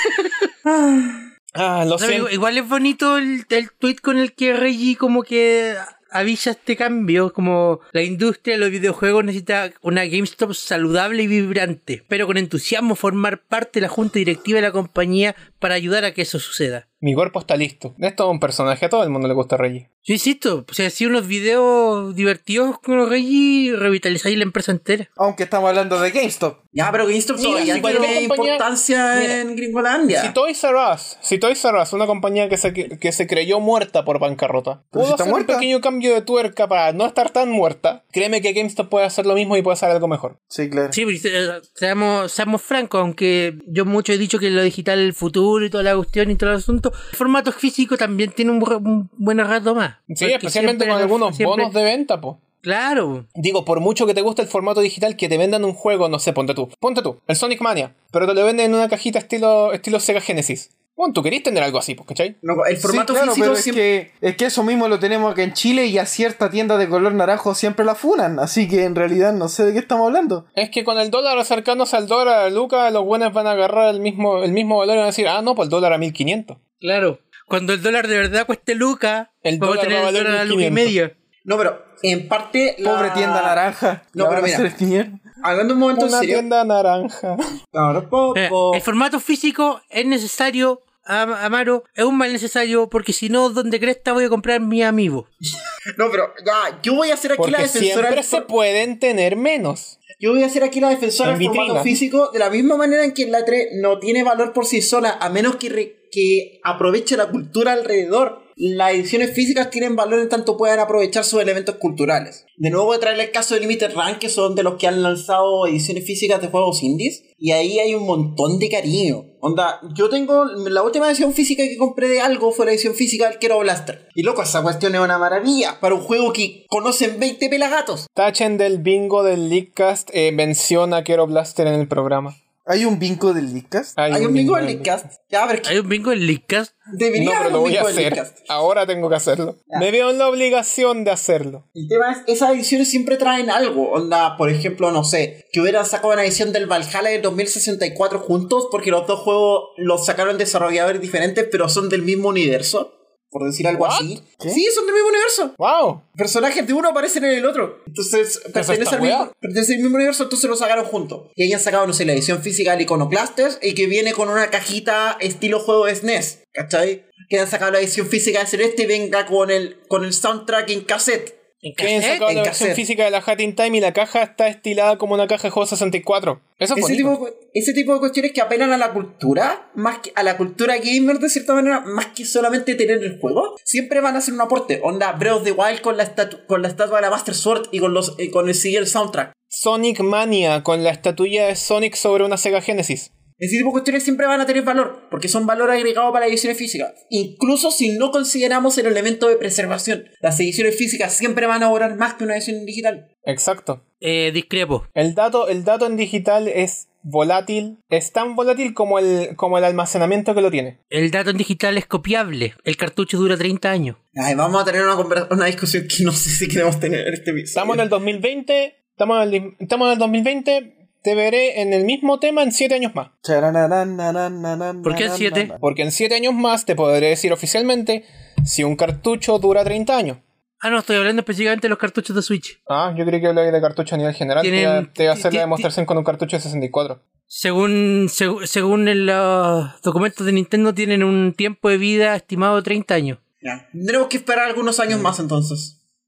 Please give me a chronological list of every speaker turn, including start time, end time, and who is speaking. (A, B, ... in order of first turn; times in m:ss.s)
0:00.6-0:01.2 A
0:01.5-0:02.3 B
0:02.0-0:16.8 C
0:17.0-0:19.8 B
0:20.0-0:25.1 C
0:25.2-0:26.6 D
0:26.7-0:30.3 A
0:27.4-0:29.4 B
0:27.6-0:28.1 C
0:30.1-0:40.4 B
0:34.9-0:35.7 D
0:40.5-0:41.0 D
0:40.9-0:51.7 C
0:50.1-0:52.4 B
0:52.6-0:53.2 C
0:53.4-1:02.4 B
1:02.4-1:03.8 A
1:02.8-1:10.4 D
1:10.6-1:16.6 B
1:16.8-1:21.1 C
1:19.4-1:20.9 B
1:21.4-1:23.6 A
1:22.8-1:25.2 D
1:24.1-1:24.7 A
1:25.4-1:26.4 A
1:25.9-1:27.4 B
1:27.7-1:28.8 A
1:28.3-1:35.2 C
1:36.0-1:38.5 A
1:37.4-1:40.0 B
1:40.2-2:08.1 A
1:41.2-1:42.0 B
2:08.2-2:12.3 B
2:12.6-2:14.0 D
2:14.0-2:14.9 B
2:14.1-2:15.7 A
2:15.6-2:16.7 C
2:16.9-2:18.4 A
2:17.1-2:21.6 B
2:21.7-2:35.6 A
2:33.7-2:34.1 B
2:35.6-2:36.0 B
2:36.2-2:51.4 A
2:38.5-2:39.3 B
2:51.6-2:52.3 C
2:51.8-2:57.2 B
2:52.2-2:52.8 A
2:56.8-3:09.3 A
3:09.5-3:13.1 B
3:13.4-3:23.1 A
3:23.2-3:23.8 B
3:24.0-3:24.8 C
3:25.0-3:30.8 B
3:30.9-3:34.0 C
3:34.1-3:37.8 A
3:37.5-3:43.1 B
3:43.2-3:45.6 D
3:44.8-3:45.5 C
3:45.6-3:50.2 B
3:50.6-3:52.6 C
3:52.7-3:57.0 B
3:54.4-3:55.7 C
3:57.3-4:03.2 C
4:03.4-4:05.7 A